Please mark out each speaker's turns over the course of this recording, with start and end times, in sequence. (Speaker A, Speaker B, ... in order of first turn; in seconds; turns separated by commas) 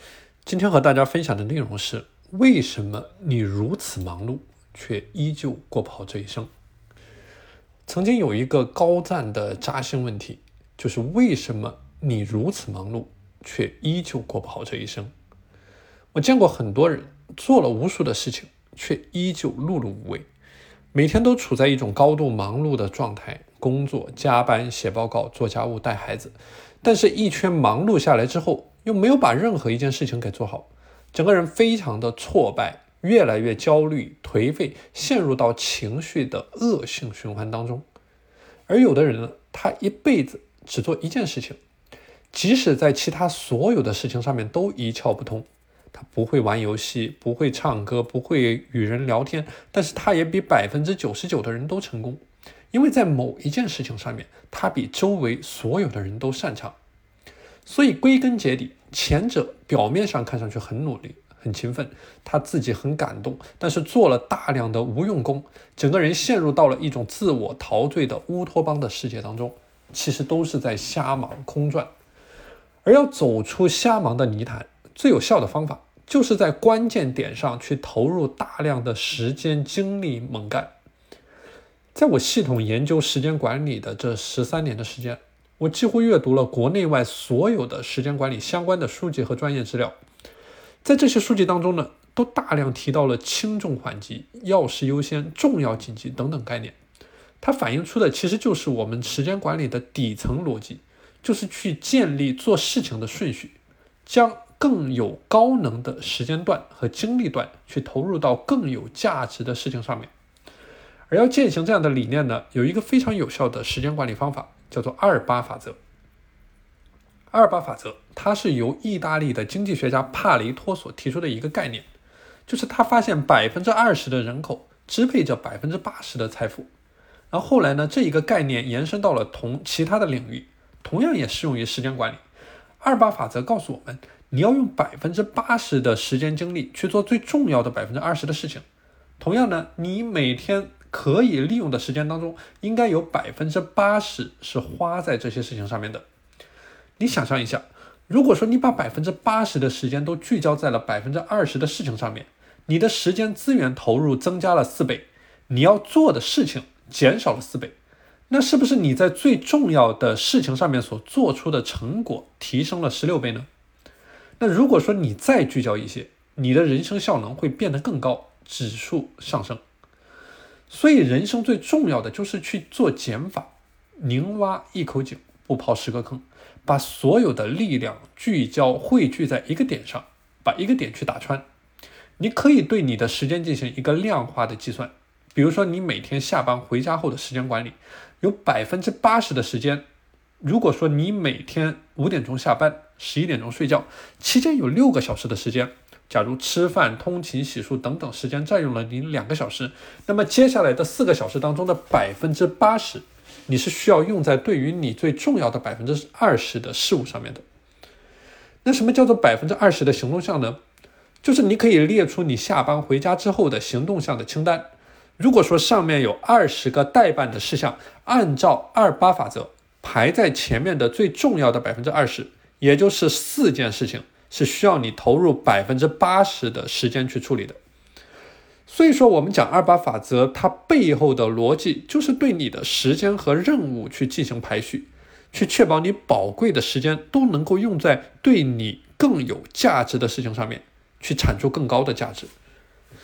Speaker A: 0.4-6.5, Speaker A: 7.9-15.1, Speaker A: 16.1-20.2, Speaker A: 20.9-37.8, Speaker A: 38.7-41.6, Speaker A: 42.3-56.7, Speaker A: 57.7-71.9, Speaker A: 72.8-80.7, Speaker A: 81.9-90.0, Speaker A: 90.8-96.8, Speaker A: 97.4-110.1, Speaker A: 111.1-115.8, Speaker A: 117.3-121.9, Speaker A: 122.5-126.7, Speaker A: 127.3-132.2, Speaker A: 132.8-138.6, Speaker A: 139.2-146.0, Speaker A: 147.0-157.7, Speaker A: 158.3-163.5, Speaker A: 164.4-169.6, Speaker A: 170.7-181.5, Speaker A: 182.2-189.8, Speaker A: 190.4-207.4, Speaker A: 208.7-210.6, Speaker A: 211.2-227.6, Speaker A: 228.7-242.3